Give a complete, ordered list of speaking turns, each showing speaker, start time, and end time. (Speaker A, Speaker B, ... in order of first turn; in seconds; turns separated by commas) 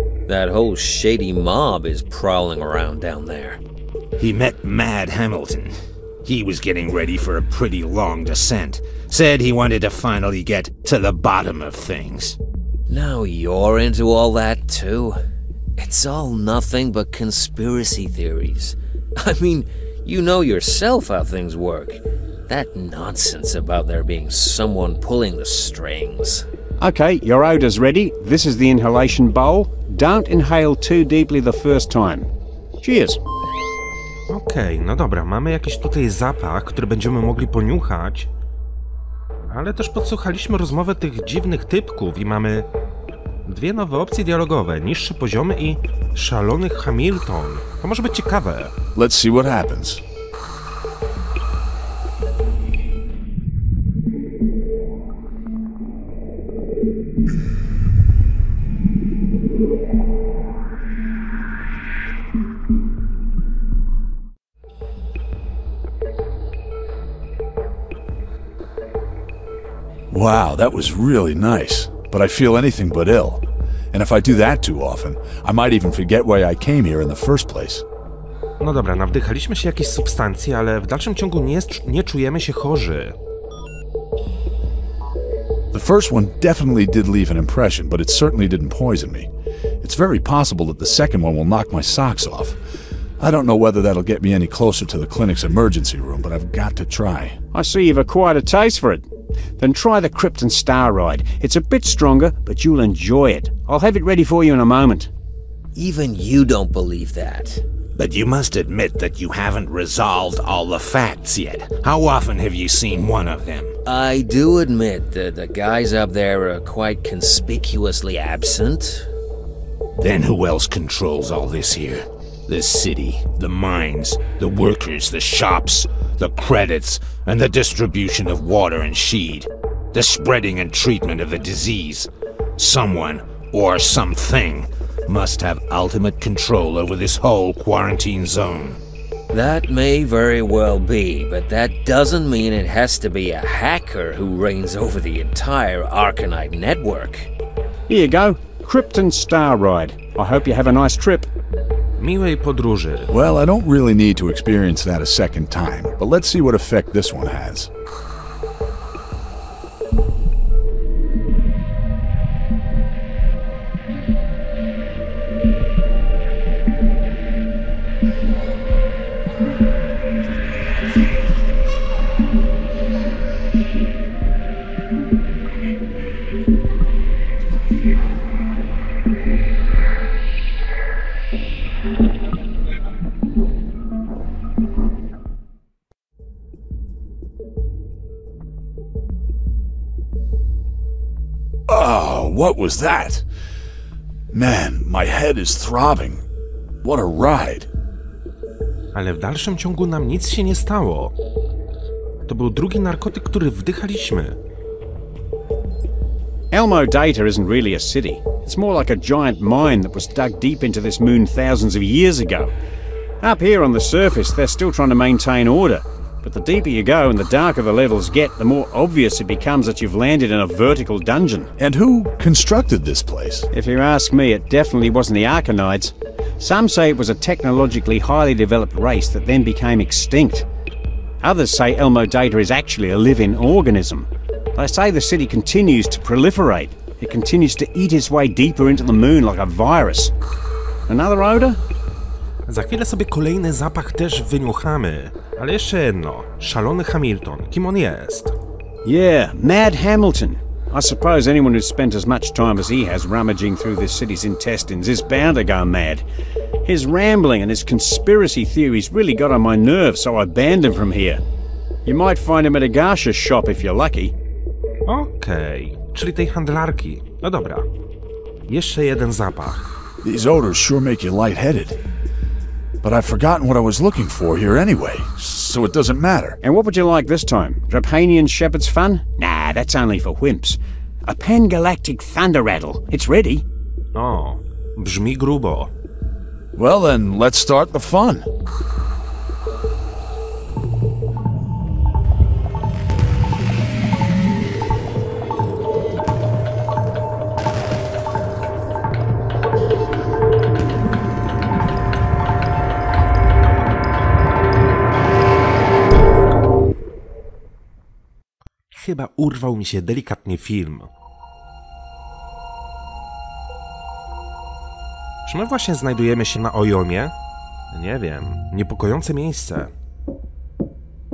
Speaker A: 0.3-3.6, Speaker B: 4.2-12.4, Speaker A: 12.9-15.2, Speaker A: 15.8-26.5, Speaker C: 26.8-32.3, Speaker C: 32.8-33.2, Speaker D: 34.3-38.3, Speaker D: 39.5-42.7, Speaker D: 43.5-48.7, Speaker E: 49.0-50.0, Speaker E: 70.1-77.8, Speaker D: 78.6-83.2, Speaker E: 85.7-89.3, Speaker E: 89.8-92.6, Speaker E: 93.2-97.4, Speaker C: 97.5-99.1, Speaker C: 99.6-105.1, Speaker A: 105.8-107.6, Speaker B: 108.0-113.8, Speaker A: 113.8-119.1, Speaker B: 120.0-138.8, Speaker A: 139.3-147.3, Speaker C: 147.9-151.3, Speaker D: 152.0-153.1, Speaker E: 153.1-157.7, Speaker E: 191.7-193.2, Speaker E: 194.3-196.2, Speaker E: 196.8-197.7, Speaker D: 198.9-201.2, Speaker D: 202.3-204.4, Speaker C: 206.5-212.5, Speaker C: 213.2-221.5, Speaker E: 221.6-223.5, Speaker C: 223.5-230.5, Speaker C: 231.2-240.1, Speaker C: 240.9-241.6, Speaker D: 242.5-248.3, Speaker C: 248.8-256.0, Speaker C: 256.6-261.2, Speaker C: 261.9-264.1, Speaker D: 264.9-267.7, Speaker D: 268.5-269.7, Speaker E: 270.0-271.8, Speaker E: 272.8-276.4, Speaker C: 276.4-283.4, Speaker D: 283.9-285.7, Speaker E: 286.6-288.3, Speaker D: 308.7-310.9, Speaker D: 315.3-317.1, Speaker D: 317.7-319.7